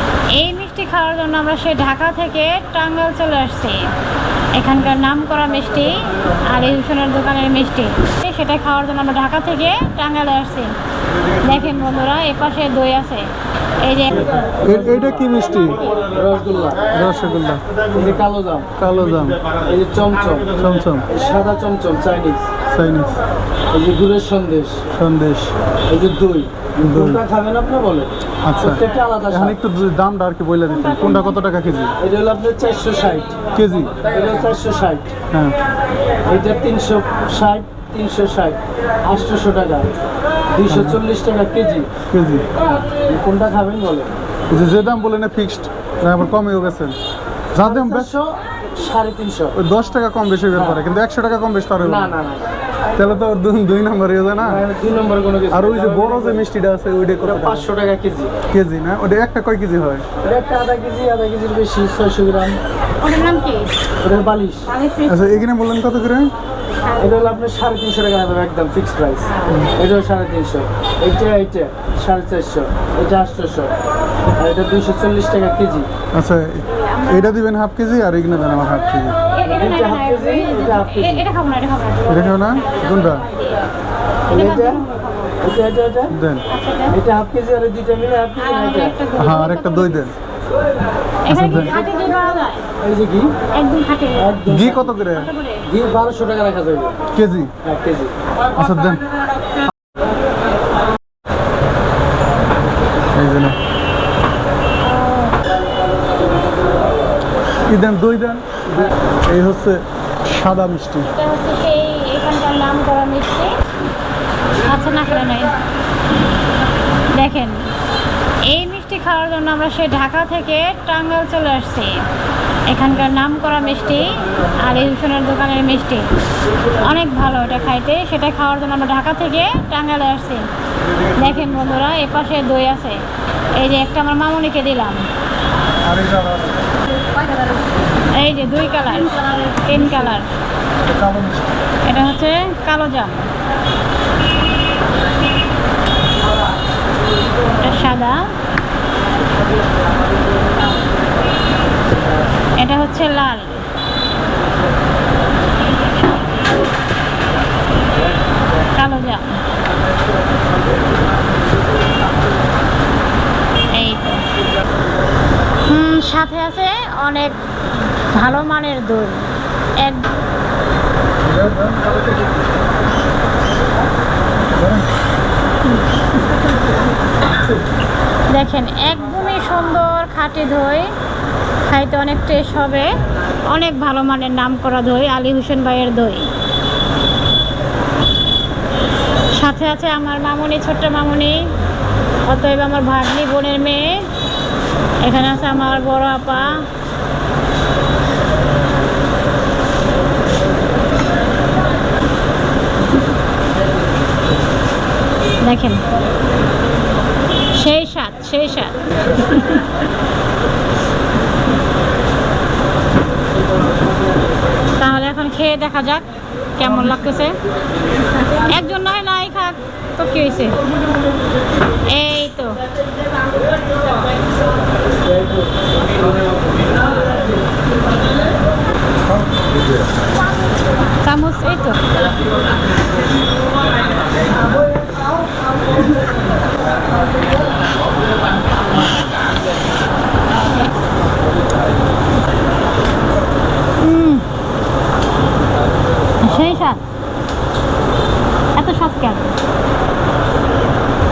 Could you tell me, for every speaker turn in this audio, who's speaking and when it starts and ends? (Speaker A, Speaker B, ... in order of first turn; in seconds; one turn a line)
Speaker A: 0.3-3.9
Speaker A: 4.5-10.7
Speaker A: 11.4-14.4
Speaker B: 14.6-15.3
Speaker C: 14.6-15.8
Speaker A: 15.6-16.1
Speaker B: 16.1-16.9
Speaker C: 16.9-17.6
Speaker B: 17.9-18.7
Speaker C: 18.8-19.4
Speaker B: 19.6-20.5
Speaker C: 20.6-21.1
Speaker B: 21.1-22.5
Speaker C: 22.7-23.2
Speaker B: 23.7-24.8
Speaker C: 24.9-25.5
Speaker B: 25.9-29.6
Speaker C: 26.8-27.2
Speaker C: 28.4-31.9
Speaker A: 30.8-31.3
Speaker B: 32.0-33.4
Speaker C: 33.5-34.1
Speaker B: 34.0-35.1
Speaker B: 36.2-39.9
Speaker B: 40.5-41.9
Speaker C: 40.7-41.0
Speaker C: 42.1-42.7
Speaker B: 42.9-44.2
Speaker C: 44.5-47.0
Speaker C: 47.5-48.1
Speaker B: 47.6-49.5
Speaker C: 49.5-52.1
Speaker B: 50.5-50.8
Speaker B: 51.8-52.5
Speaker C: 53.0-54.6
Speaker B: 54.4-56.4
Speaker C: 55.5-57.7
Speaker B: 57.2-58.3
Speaker C: 58.5-60.0
Speaker B: 60.2-62.6
Speaker A: 63.0-63.7
Speaker B: 64.0-64.7
Speaker A: 64.7-65.4
Speaker C: 65.1-66.3
Speaker B: 67.0-73.7
Speaker A: 69.2-69.6
Speaker B: 74.4-75.9
Speaker C: 76.1-79.2
Speaker A: 76.9-77.3
Speaker A: 79.3-83.6
Speaker B: 79.4-81.2
Speaker C: 82.1-83.2
Speaker B: 84.3-84.8
Speaker A: 84.3-85.3
Speaker B: 85.4-86.2
Speaker C: 86.1-86.5
Speaker A: 86.5-87.0
Speaker B: 86.9-89.0
Speaker A: 88.4-90.1
Speaker C: 89.2-90.1
Speaker A: 91.2-92.7
Speaker C: 91.3-91.8
Speaker B: 92.8-93.4
Speaker A: 93.5-94.3
Speaker B: 94.2-95.0
Speaker C: 94.5-95.3
Speaker A: 95.1-95.6
Speaker B: 95.6-97.0
Speaker C: 97.1-97.5
Speaker B: 97.6-98.1
Speaker C: 98.5-99.0
Speaker C: 103.1-103.6
Speaker A: 104.8-105.4
Speaker C: 107.7-111.1
Speaker A: 111.0-113.5
Speaker A: 114.6-115.5
Speaker A: 117.1-117.7
Speaker A: 118.4-122.0
Speaker A: 122.7-126.1
Speaker A: 126.8-130.5
Speaker A: 131.1-135.1
Speaker C: 135.8-136.6
Speaker A: 138.1-140.3
Speaker C: 140.8-141.5
Speaker A: 141.8-143.3
Speaker A: 147.6-148.3
Speaker A: 152.6-153.6
Speaker A: 158.6-159.4
Speaker A: 163.7-164.3
Speaker A: 165.7-167.4
Speaker A: 168.1-170.1
Speaker C: 171.2-172.0
Speaker C: 174.6-174.9
Speaker A: 178.3-180.9
Speaker A: 181.6-182.9
Speaker A: 183.5-186.3
Speaker A: 189.3-191.5
Speaker A: 192.3-194.1
Speaker A: 195.0-196.7
Speaker A: 205.4-205.8
Speaker A: 207.5-209.6
Speaker A: 214.8-217.4
Speaker A: 218.3-220.6
Speaker A: 221.9-222.6
Speaker A: 231.0-231.8
Speaker A: 243.8-244.2
Speaker A: 246.2-246.8
Speaker A: 248.6-249.4